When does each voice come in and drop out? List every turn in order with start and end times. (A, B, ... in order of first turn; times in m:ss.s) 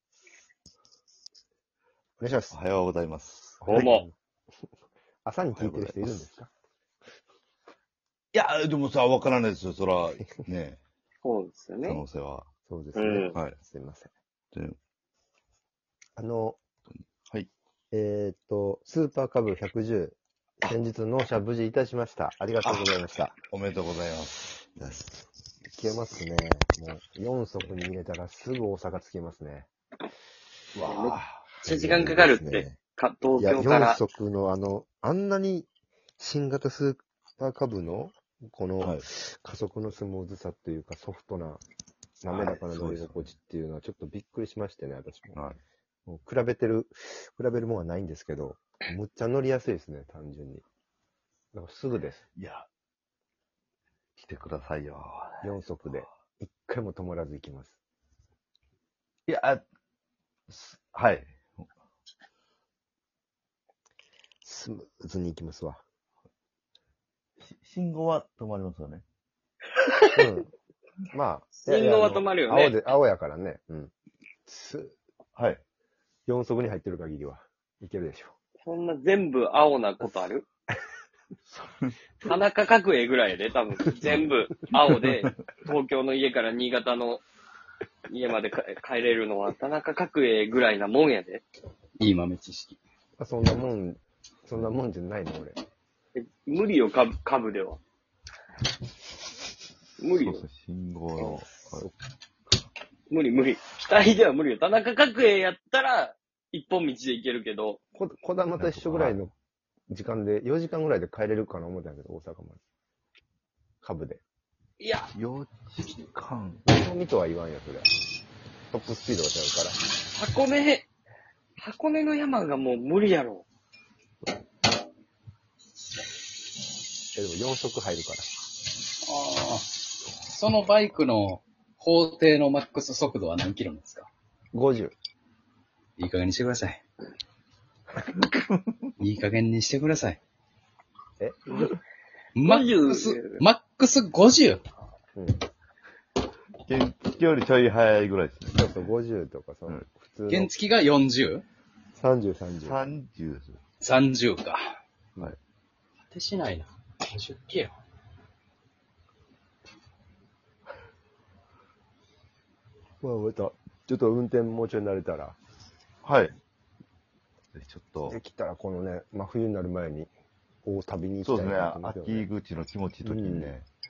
0:02.2-0:02.6 A
0:02.5-0:03.9 B
0:03.6-0:04.1 A
0:03.7-0:04.1 C
0:05.2-0:06.5 A
0:05.5-0:06.2 B
0:08.3-0:10.8 B
0:11.2-0:12.0 C
0:11.8-0:12.5 B
0:12.7-0:14.1 A
0:13.0-0:13.4 C
0:16.2-0:16.6 A
0:16.9-0:17.5 B
0:17.9-0:23.4 A
0:22.6-0:22.9 B
0:23.5-0:25.2 B
0:25.7-0:29.7 A
0:30.8-0:31.4 B
0:30.9-0:34.0 C
0:31.6-0:32.8 A
0:33.4-0:41.6 A
0:42.2-0:45.4 A
0:42.3-0:43.3 B
0:46.1-0:50.6 A
0:51.5-0:52.2 A
0:52.4-0:52.7 B
0:54.2-0:56.0 B
0:55.4-0:57.8 A
0:59.3-0:59.6 B
1:00.5-1:01.3 B
1:04.4-1:05.8 A
1:07.5-1:09.0 B
1:10.2-1:10.5 A
1:11.1-1:13.9 A
1:11.6-1:12.8 C
1:14.5-1:15.0 A
1:15.4-1:15.6 B
1:16.3-1:18.4 A
1:18.6-1:20.5 C
1:22.2-1:27.2 C
1:28.1-1:31.4 C
1:32.0-1:32.8 D
1:33.2-1:35.6 A
1:36.2-1:37.8 C
1:40.0-1:40.4 C
1:40.2-1:41.9 B
1:41.2-1:41.9 A
1:43.1-1:47.8 C
1:48.0-1:49.3 A
1:48.6-1:49.2 B
1:49.9-1:52.6 A
1:53.8-1:54.2 A
1:54.8-1:55.1 C
1:55.1-1:56.6 B
1:56.7-1:57.9 A
1:58.7-1:59.8 A
2:00.1-2:00.9 C
2:01.6-2:03.4 C
2:07.2-2:08.3 A
2:09.0-2:14.1 D
2:14.5-2:15.0 A
2:16.0-2:16.8 D
2:19.0-2:20.2 D
2:21.2-2:21.7 A
2:22.4-2:24.6 D
2:22.4-2:23.4 C
2:25.2-2:25.4 A
2:26.6-2:28.9 B
2:28.5-2:30.5 A
2:30.3-2:31.4 D
2:32.0-2:32.9 A
2:32.6-2:33.6 B
2:33.8-2:34.8 D
2:36.1-2:37.8 D
2:43.0-2:45.4 A
2:46.0-2:46.4 B
2:47.5-2:48.2 B
2:48.1-2:50.1 A
2:50.6-2:52.3 A
2:51.2-2:53.7 B
2:53.0-2:53.6 A